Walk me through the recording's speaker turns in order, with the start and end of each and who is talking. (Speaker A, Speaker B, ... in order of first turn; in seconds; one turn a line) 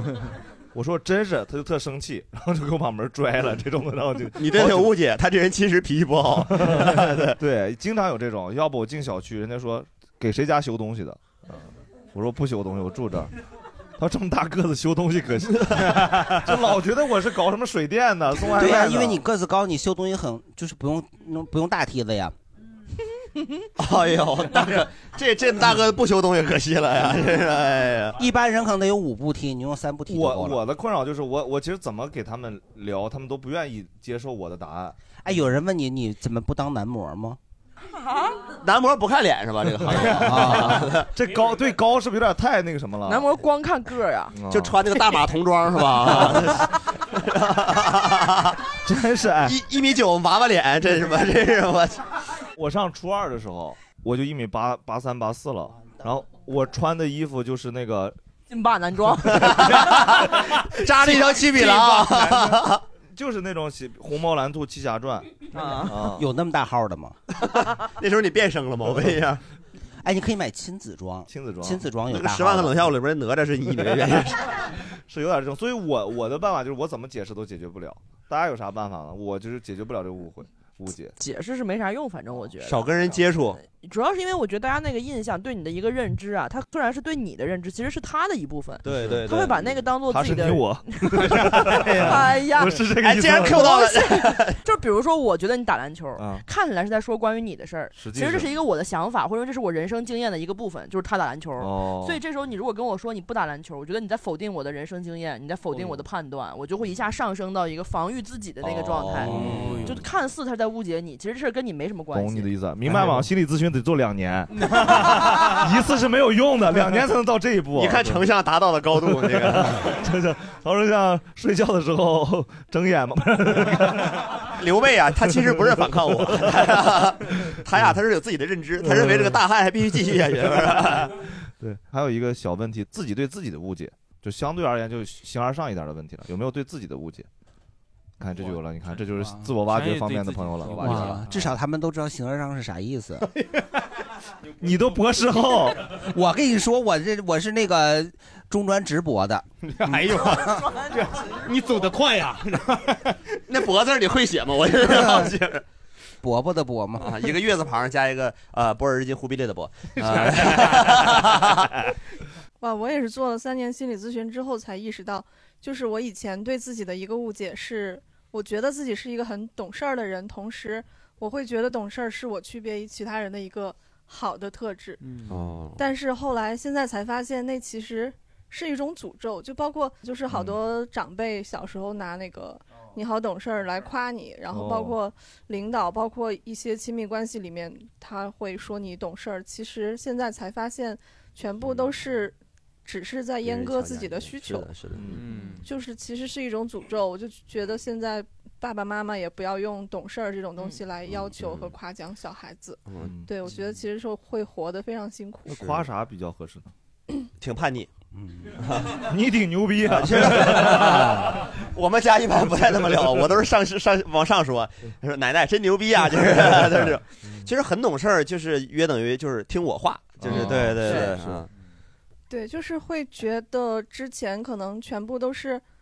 Speaker A: 0.7-5.0
Speaker B: 4.4-7.4
Speaker A: 6.5-13.3
Speaker A: 14.0-19.2
Speaker C: 18.5-22.3
Speaker B: 23.8-28.2
Speaker C: 28.2-30.6
Speaker A: 30.1-35.0
Speaker C: 35.2-37.4
Speaker B: 38.6-41.1
Speaker C: 40.1-40.9
Speaker A: 41.1-43.3
Speaker D: 43.1-44.4
Speaker A: 44.3-44.8
Speaker B: 44.5-48.6
Speaker A: 48.9-49.6
Speaker B: 49.4-52.1
Speaker A: 52.6-58.2
Speaker D: 58.5-59.8
Speaker B: 59.3-62.8
Speaker E: 61.1-62.5
Speaker A: 63.1-65.3
Speaker D: 65.5-65.9
Speaker A: 65.8-66.3
Speaker C: 66.0-67.2
Speaker B: 67.4-69.4
Speaker C: 70.0-72.9
Speaker A: 71.3-71.8
Speaker B: 72.1-74.5
Speaker A: 75.1-81.2
Speaker D: 81.2-83.0
Speaker B: 82.6-83.6
Speaker D: 83.6-92.9
Speaker B: 88.8-89.9
Speaker A: 88.9-89.2
Speaker A: 90.0-93.7
Speaker B: 93.0-94.6
Speaker D: 93.4-112.5
Speaker A: 96.2-96.5
Speaker A: 98.0-98.5
Speaker A: 101.6-102.2
Speaker B: 108.6-109.2
Speaker A: 109.3-109.9
Speaker C: 109.3-109.8
Speaker E: 109.5-109.9
Speaker A: 112.1-118.3
Speaker E: 114.8-115.5
Speaker B: 117.7-119.9
Speaker A: 119.1-124.2
Speaker B: 124.6-131.1
Speaker A: 125.3-126.9
Speaker A: 128.8-129.4
Speaker A: 130.3-137.3
Speaker A: 138.2-141.2
Speaker E: 138.4-139.0
Speaker E: 139.6-141.5
Speaker C: 140.8-143.3
Speaker A: 144.6-145.9
Speaker C: 146.0-150.7
Speaker E: 149.6-153.2
Speaker B: 153.5-155.6
Speaker C: 154.8-155.3
Speaker C: 156.2-157.3
Speaker B: 157.0-161.8
Speaker F: 162.6-175.0
Speaker E: 175.0-175.4
Speaker B: 175.3-175.9
Speaker F: 175.8-194.7
Speaker A: 180.3-180.6
Speaker A: 184.5-185.0
Speaker B: 193.4-195.3
Speaker A: 195.0-195.2
Speaker E: 195.1-195.7
Speaker F: 195.7-205.6
Speaker B: 201.1-201.7
Speaker B: 202.9-203.1
Speaker A: 203.0-203.3
Speaker A: 205.5-206.7
Speaker B: 205.6-205.9
Speaker B: 207.4-207.9
Speaker C: 208.2-208.5
Speaker B: 208.6-209.0
Speaker A: 209.1-211.0
Speaker B: 209.8-221.5
Speaker A: 220.2-221.3
Speaker F: 222.3-225.6